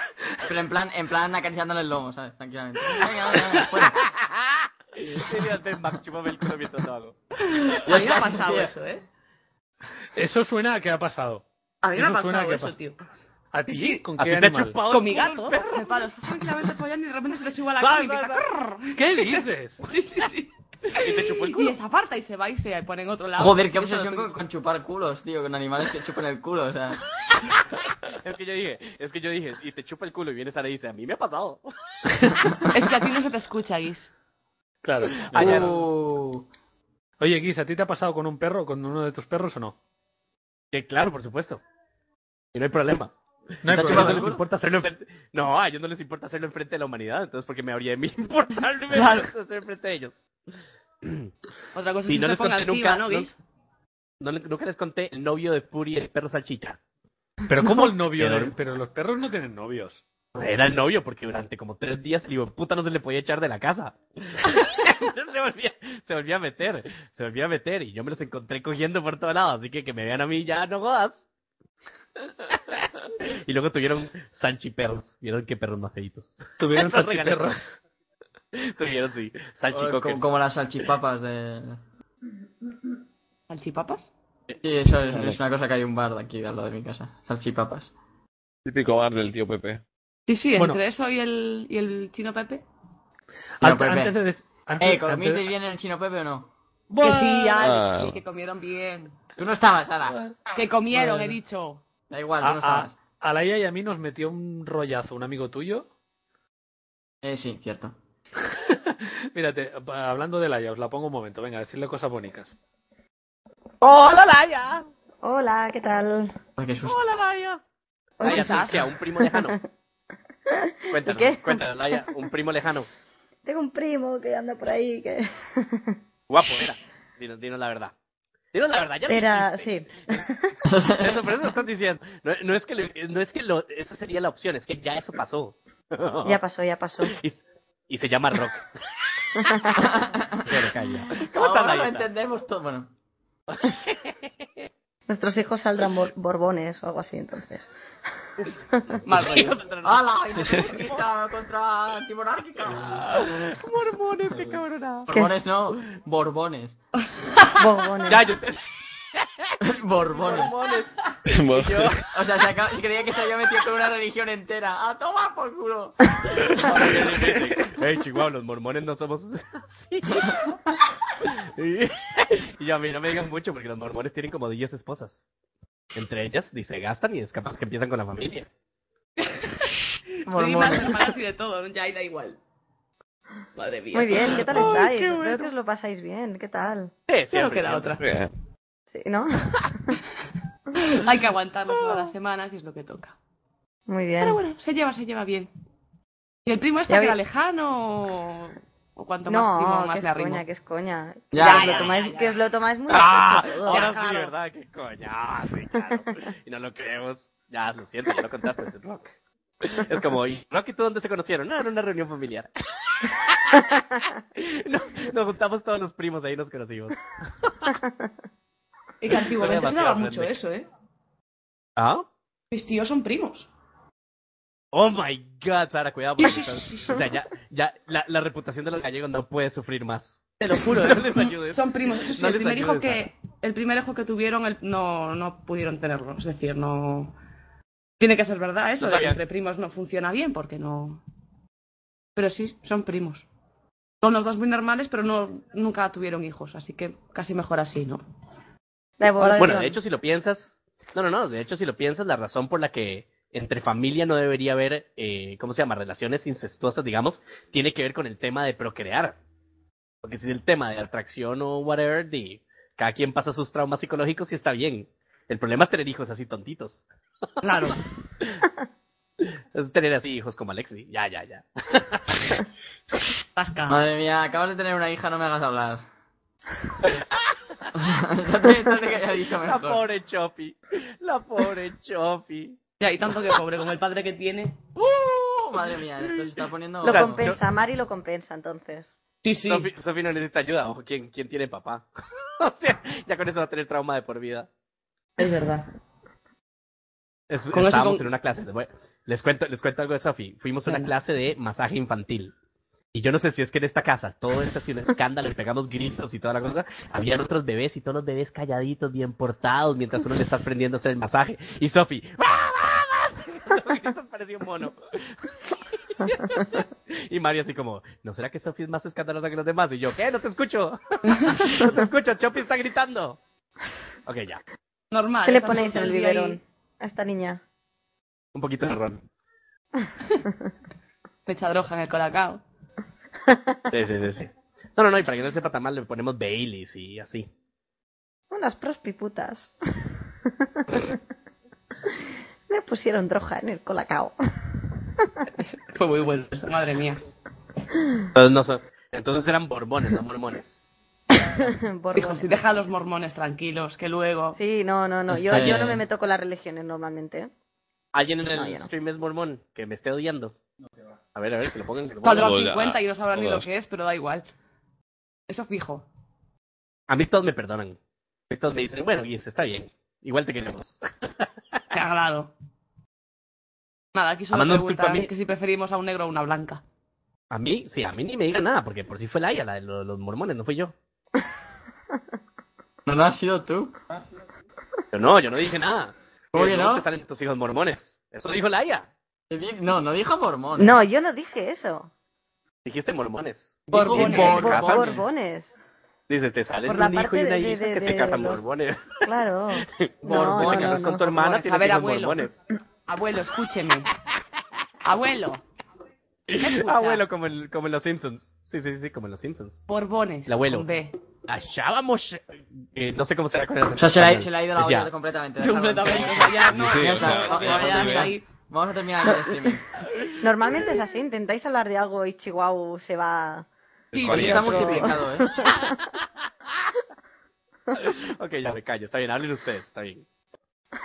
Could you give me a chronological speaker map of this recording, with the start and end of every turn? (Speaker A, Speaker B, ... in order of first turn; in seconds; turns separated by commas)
Speaker A: 0.4-4.0, Speaker B: 4.0-7.2, Speaker C: 7.5-9.0, Speaker A: 7.8-8.7, Speaker D: 10.1-12.8, Speaker C: 11.8-13.0, Speaker D: 13.5-14.8, Speaker C: 13.7-14.0, Speaker B: 14.2-16.0, Speaker C: 14.9-24.3, Speaker B: 17.8-18.5, Speaker D: 18.9-19.8, Speaker B: 20.9-21.7, Speaker A: 23.4-27.0, Speaker B: 28.1-31.7, Speaker B: 32.2-32.5, Speaker C: 32.7-34.1, Speaker D: 34.8-35.7, Speaker B: 35.1-35.9, Speaker A: 35.4-36.5, Speaker D: 37.2-39.8, Speaker B: 40.7-41.6, Speaker B: 42.5-43.1, Speaker D: 43.6-44.4, Speaker A: 43.7-44.4, Speaker B: 43.7-50.2, Speaker C: 48.9-49.2, Speaker B: 51.0-51.3, Speaker C: 51.7-53.3, Speaker B: 52.1-53.3, Speaker B: 54.2-56.8, Speaker D: 57.5-60.0, Speaker B: 58.1-58.5, Speaker B: 60.3-71.2, Speaker B: 73.5-77.6, Speaker D: 76.6-77.7, Speaker B: 78.5-80.3, Speaker A: 79.7-81.8, Speaker C: 83.5-84.1, Speaker A: 84.6-87.9, Speaker E: 88.7-89.8, Speaker C: 90.3-92.6, Speaker D: 93.6-95.5, Speaker A: 93.6-94.1, Speaker A: 94.8-96.5, Speaker D: 96.9-97.7, Speaker C: 97.0-99.2, Speaker E: 97.6-98.2, Speaker A: 99.4-100.2, Speaker C: 100.5-101.8, Speaker A: 100.9-101.4, Speaker A: 102.1-103.0, Speaker D: 102.4-105.9, Speaker A: 107.2-108.0, Speaker D: 108.4-112.5, Speaker B: 113.8-114.9, Speaker F: 115.2-116.3, Speaker A: 116.6-117.0, Speaker B: 116.8-117.6, Speaker F: 118.2-119.6, Speaker B: 118.2-119.5, Speaker C: 118.2-118.8, Speaker F: 120.5-122.2, Speaker B: 120.9-122.9, Speaker F: 123.4-126.0, Speaker B: 126.3-127.9, Speaker B: 128.5-130.2, Speaker F: 129.1-130.5, Speaker A: 130.6-131.2, Speaker B: 131.0-136.4, Speaker F: 136.2-137.2, Speaker B: 137.0-138.8, Speaker F: 139.4-139.8, Speaker A: 139.8-142.9, Speaker B: 140.4-142.1, Speaker B: 143.5-144.2, Speaker F: 145.1-147.7, Speaker C: 149.0-149.6, Speaker B: 149.1-151.1, Speaker A: 149.8-153.2, Speaker B: 152.7-155.1, Speaker A: 155.1-156.8, Speaker C: 157.2-157.5, Speaker F: 157.5-158.3, Speaker B: 158.0-158.6, Speaker B: 159.2-159.6, Speaker A: 159.6-160.6, Speaker B: 160.1-160.9, Speaker E: 161.3-162.1, Speaker B: 161.5-162.1, Speaker A: 162.1-167.4, Speaker B: 166.4-170.5, Speaker B: 171.2-175.2, Speaker B: 175.9-178.5, Speaker C: 180.3-182.4, Speaker A: 180.3-181.1, Speaker C: 183.6-184.9, Speaker F: 183.9-186.9, Speaker B: 184.3-185.4, Speaker B: 187.1-188.0, Speaker C: 187.3-188.0, Speaker E: 188.0-188.3, Speaker F: 188.9-189.9, Speaker C: 190.8-193.2, Speaker F: 193.9-194.4, Speaker C: 194.2-195.5, Speaker C: 196.4-200.4, Speaker F: 196.9-197.2, Speaker F: 199.3-203.9, Speaker A: 201.3-201.9, Speaker C: 201.4-202.3, Speaker B: 202.9-217.7, Speaker C: 203.6-204.3, Speaker C: 219.0-220.7, Speaker B: 219.3-220.3, Speaker B: 221.8-222.1, Speaker C: 222.5-223.5, Speaker B: 224.7-233.1, Speaker C: 226.2-227.1, Speaker C: 230.4-237.1, Speaker C: 238.0-241.0, Speaker B: 238.8-239.2, Speaker C: 242.2-243.2, Speaker C: 244.0-248.0, Speaker F: 249.0-249.8, Speaker B: 249.2-259.2, Speaker B: 260.0-266.8, Speaker C: 267.4-267.8, Speaker B: 269.5-272.4, Speaker C: 273.4-273.8, Speaker A: 273.7-275.8, Speaker A: 277.7-279.8, Speaker B: 279.4-282.6, Speaker C: 282.8-284.6, Speaker A: 284.8-287.3, Speaker F: 286.8-288.9, Speaker B: 286.9-287.4, Speaker C: 289.2-289.7, Speaker B: 289.5-291.8, Speaker B: 292.4-294.5, Speaker C: 295.2-295.7, Speaker B: 297.3-302.3, Speaker C: 297.5-298.1, Speaker B: 302.9-323.2, Speaker C: 321.1-321.6, Speaker B: 324.1-324.4, Speaker C: 324.9-326.4, Speaker F: 325.2-327.4, Speaker B: 328.3-329.0, Speaker C: 331.3-332.4, Speaker F: 333.3-333.6, Speaker B: 333.7-337.3, Speaker F: 338.3-341.0, Speaker F: 342.5-345.1, Speaker C: 345.4-347.0, Speaker B: 348.1-350.7, Speaker F: 351.2-352.4, Speaker C: 351.9-354.4, Speaker F: 354.4-357.3, Speaker A: 355.1-355.8, Speaker B: 355.3-355.6, Speaker B: 357.9-360.4, Speaker F: 358.3-358.7, Speaker B: 361.1-362.3, Speaker C: 362.0-364.2, Speaker E: 362.2-363.5, Speaker C: 365.3-365.9, Speaker B: 366.9-367.8, Speaker B: 368.3-371.2, Speaker C: 371.7-372.3, Speaker C: 373.9-376.6, Speaker B: 374.3-375.1, Speaker B: 377.3-380.7, Speaker A: 382.9-383.8, Speaker B: 384.9-388.9, Speaker A: 386.3-386.9, Speaker A: 389.3-390.8, Speaker F: 390.6-391.9, Speaker B: 392.6-395.0, Speaker C: 393.7-394.5, Speaker A: 393.7-395.0, Speaker F: 393.9-395.5, Speaker B: 396.1-399.0, Speaker F: 396.6-398.4, Speaker F: 399.0-401.1, Speaker B: 399.6-402.3, Speaker A: 400.0-400.9, Speaker C: 401.1-402.2, Speaker C: 402.9-403.9, Speaker C: 404.8-405.4, Speaker B: 406.3-409.6, Speaker C: 406.4-407.0, Speaker C: 409.7-410.9, Speaker B: 410.3-410.7, Speaker B: 411.3-414.9, Speaker A: 413.8-419.7, Speaker C: 415.4-418.2, Speaker E: 416.4-418.1, Speaker F: 419.0-419.6, Speaker F: 420.2-423.5, Speaker B: 423.9-424.9, Speaker C: 423.9-424.9, Speaker E: 424.0-424.8, Speaker A: 424.1-425.3, Speaker F: 424.7-425.8, Speaker B: 425.4-425.8, Speaker B: 427.7-430.0